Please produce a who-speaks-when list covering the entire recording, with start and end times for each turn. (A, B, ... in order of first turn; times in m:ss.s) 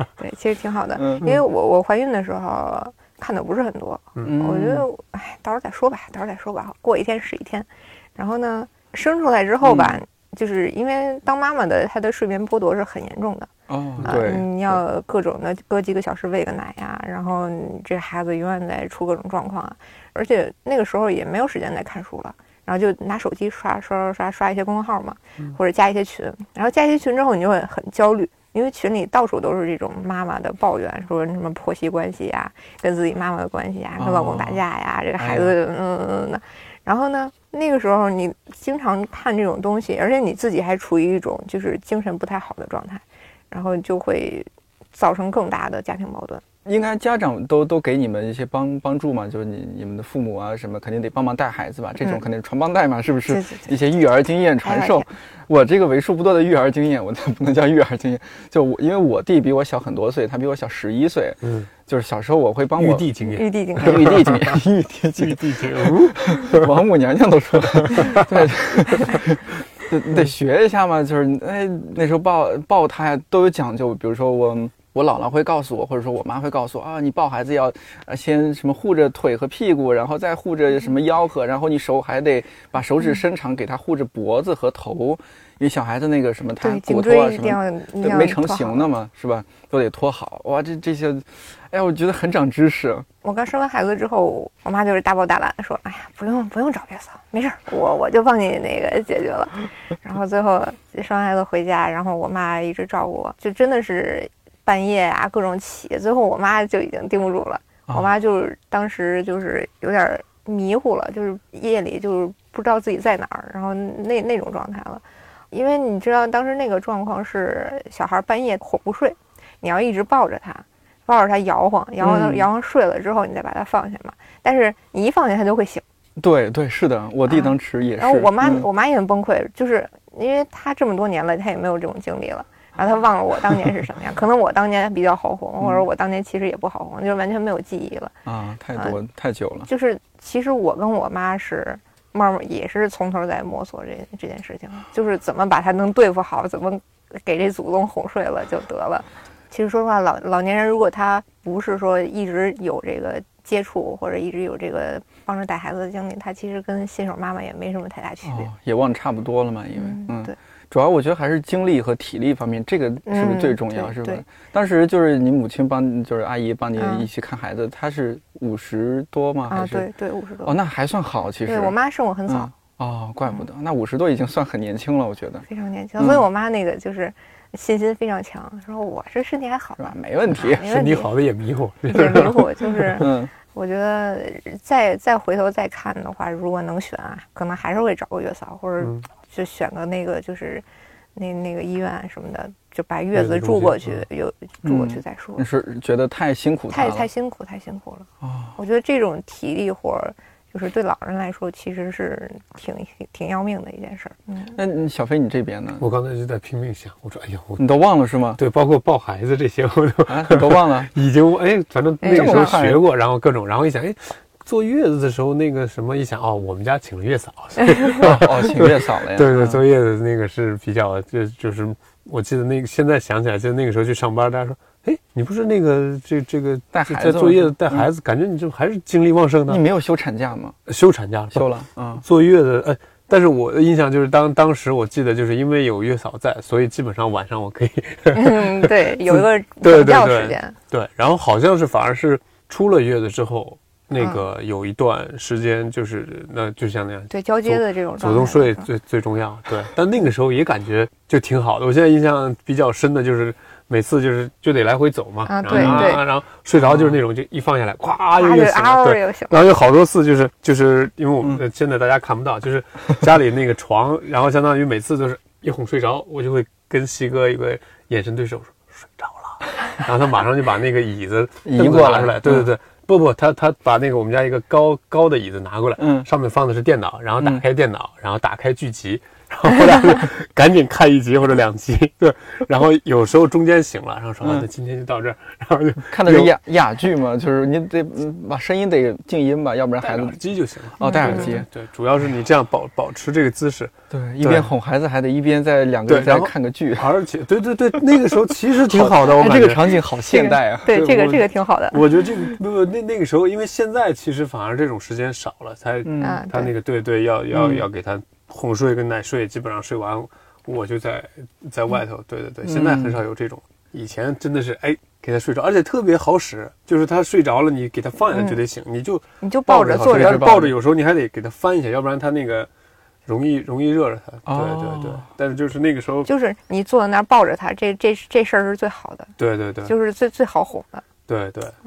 0:00.2-0:13.5 A
0:01.0-0:01.4 B
0:04.2-0:04.8 B
0:09.6-0:10.0 B
0:13.7-0:14.8 B
0:14.0-0:46.4 A
0:34.0-0:34.6 B
0:35.2-0:35.5 B
0:46.6-1:03.1 B
0:53.3-0:53.7 A
0:54.6-0:55.1 A
1:01.4-1:01.7 C
1:02.8-1:04.6 C
1:03.2-1:04.2 A
1:03.8-1:33.1 B
1:05.2-1:06.7 C
1:07.9-1:08.2 C
1:26.6-1:28.9 A
1:33.2-2:05.8 A
2:02.0-2:02.5 B
2:06.2-2:08.7 B
2:07.3-2:18.1 A
2:18.2-2:19.7 B
2:19.7-2:38.5 A
2:38.2-2:49.9 B
2:39.8-2:40.3 A
2:43.1-2:44.2 A
2:46.8-2:47.0 A
2:49.5-2:50.6 A
2:50.4-2:51.7 B
2:51.4-2:52.5 A
2:52.3-2:55.4 B
2:55.5-3:01.1 A
2:59.8-3:00.6 B
3:00.6-3:02.5 C
3:01.9-3:10.6 A
3:02.9-3:03.3 B
3:11.2-3:15.4 A
3:13.1-3:13.9 C
3:14.6-3:17.1 B
3:16.7-3:24.6 A
3:18.2-3:18.5 B
3:24.5-3:25.8 B
3:25.8-3:27.6 C
3:27.6-3:28.4 B
3:28.4-3:49.6 C
3:30.1-3:30.9 B
3:32.0-3:32.4 A
3:32.0-3:32.8 B
3:37.9-3:39.6 B
3:46.7-3:47.9 B
3:49.5-3:50.6 B
3:50.7-3:51.5 C
3:51.3-3:52.0 B
3:52.0-4:46.3 C
3:58.1-4:00.5 A
4:07.1-4:08.7 A
4:15.2-4:16.0 A
4:15.5-4:16.0 B
4:16.6-4:16.9 B
4:18.2-4:19.4 A
4:31.4-4:32.5 B
4:35.8-4:36.1 B
4:37.2-4:37.4 B
4:44.2-4:44.5 B
4:45.8-4:50.2 B
4:49.8-4:54.5 C
4:50.8-4:51.5 B
4:50.8-4:51.4 A
4:53.9-4:56.9 B
4:55.9-4:59.8 C
4:58.5-5:00.8 B
5:00.1-5:01.8 A
5:00.7-5:22.5 C
5:05.8-5:06.2 B
5:06.0-5:06.5 A
5:07.3-5:07.6 B
5:12.4-5:13.0 B
5:18.1-5:18.4 A
5:19.2-5:20.4 A
5:19.8-5:20.5 B
5:23.0-5:26.1 C
5:24.2-5:25.0 B
5:26.0-5:29.1 A
5:29.2-5:29.7 C
5:29.6-5:30.8 A
5:31.1-5:31.6 C